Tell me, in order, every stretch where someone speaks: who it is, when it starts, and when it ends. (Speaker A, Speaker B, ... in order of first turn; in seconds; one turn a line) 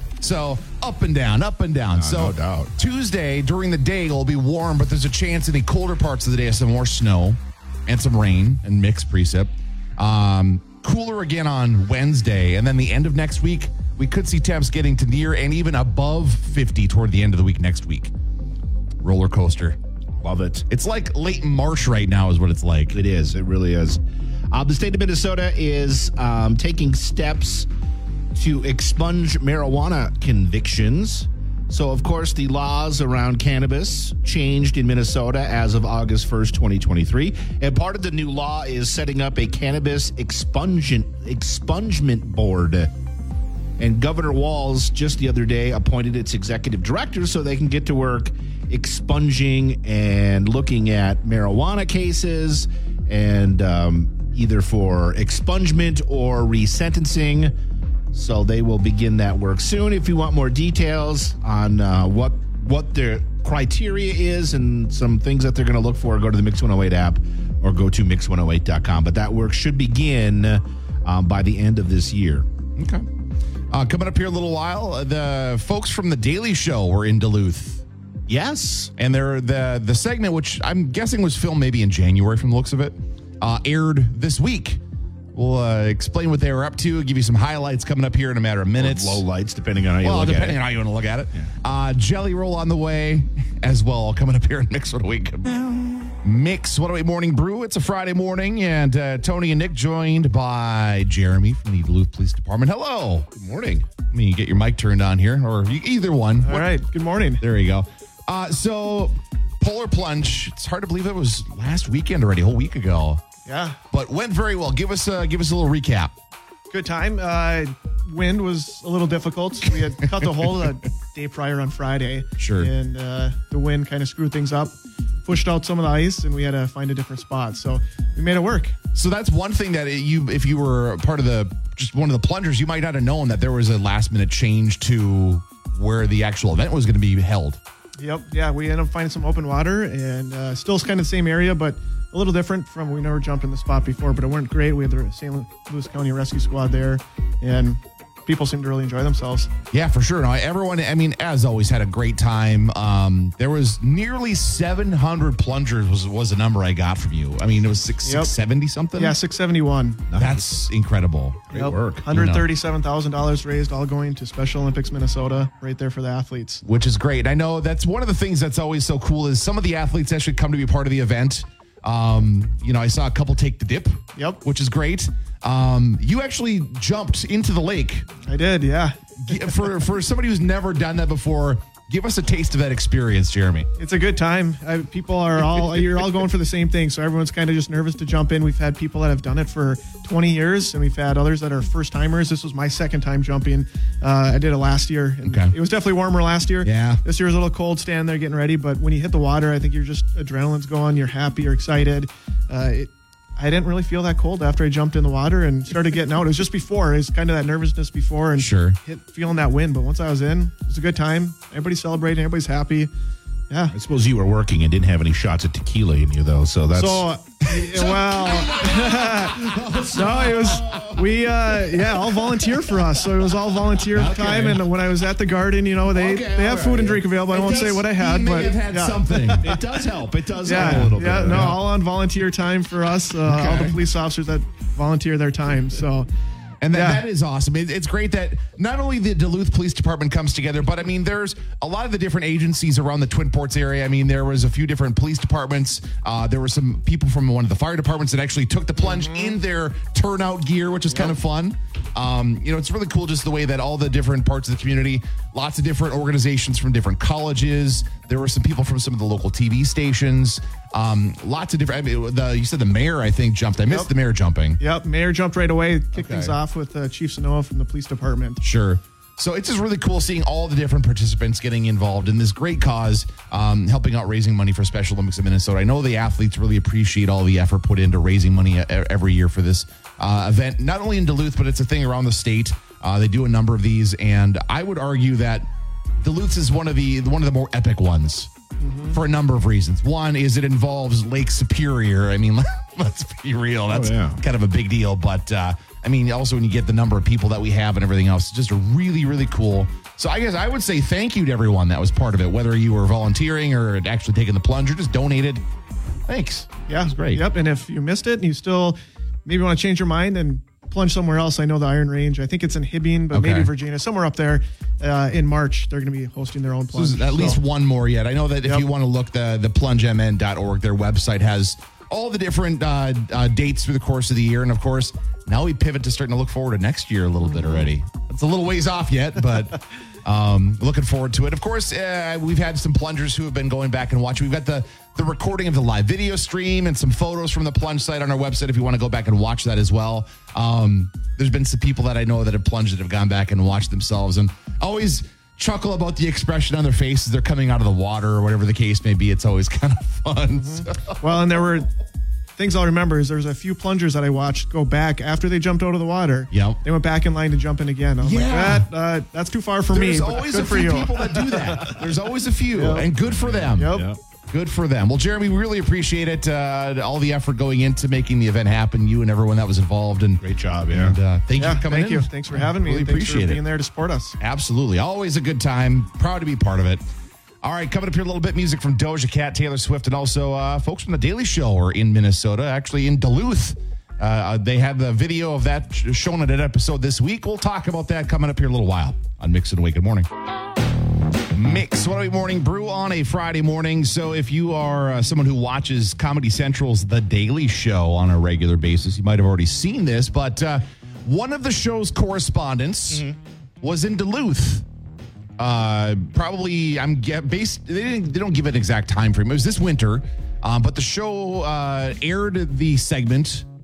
Speaker A: 0.2-18.1
Speaker B: 1.9-2.7
Speaker A: 19.0-19.8
Speaker B: 20.2-20.6
Speaker A: 20.7-23.0
Speaker B: 22.9-24.0
Speaker B: 24.5-27.7
Speaker B: 28.3-42.9
Speaker B: 43.8-57.5
Speaker B: 58.1-72.5
Speaker A: 72.8-73.1
Speaker A: 73.7-77.8
Speaker B: 78.3-78.9
Speaker A: 79.0-84.8
Speaker A: 85.3-89.2
Speaker B: 88.8-90.6
Speaker A: 90.0-103.3
Speaker B: 103.3-103.9
Speaker A: 104.1-106.7
Speaker C: 106.4-107.4
Speaker A: 107.4-113.2
Speaker C: 113.5-113.8
Speaker A: 113.9-116.1
Speaker C: 116.7-128.8
Speaker A: 122.4-122.7
Speaker A: 128.9-137.6
Speaker C: 138.0-149.5
Speaker A: 149.7-159.2
Speaker C: 158.1-158.3
Speaker C: 159.0-160.1
Speaker B: 160.1-160.4
Speaker A: 160.2-161.5
Speaker B: 161.5-162.1
Speaker C: 161.5-166.6
Speaker A: 162.1-162.5
Speaker A: 166.6-178.1
Speaker C: 178.2-179.0
Speaker A: 179.2-183.7
Speaker C: 183.8-212.9
Speaker A: 195.2-195.6
Speaker A: 196.6-197.0
Speaker A: 208.4-208.8
Speaker B: 213.7-217.1
Speaker C: 216.7-229.6
Speaker B: 217.7-222.1
Speaker A: 223.9-224.7
Speaker B: 225.9-227.8
Speaker A: 227.4-229.5
Speaker B: 229.4-231.6
Speaker C: 230.4-236.1
Speaker A: 230.5-231.6
Speaker A: 233.2-233.8
Speaker A: 236.6-264.6
Speaker C: 236.7-237.0
Speaker C: 248.8-249.3
Speaker C: 264.6-268.4
Speaker A: 265.9-266.4
Speaker A: 268.4-285.5
Speaker A: 286.0-288.3
Speaker C: 288.6-289.0
Speaker A: 288.9-305.4
Speaker B: 293.7-294.2
Speaker A: 306.1-307.2
Speaker C: 306.7-317.4
Speaker A: 313.1-313.5
Speaker A: 316.7-351.1
Speaker C: 327.3-327.6
Speaker C: 350.4-351.7
Speaker C: 352.4-361.8
Speaker A: 356.3-356.6
Speaker A: 358.0-358.7
Speaker A: 359.7-363.8
Speaker C: 362.5-362.9
Speaker B: 363.0-364.0
Speaker C: 363.4-363.9
Speaker A: 364.3-373.4
Speaker B: 370.2-371.0
Speaker C: 371.4-374.1
Speaker A: 374.2-376.8
Speaker A: 377.4-390.1
Speaker A: 391.3-403.1
Speaker B: 402.9-403.2
Speaker A: 403.6-404.6
Speaker A: 405.4-413.4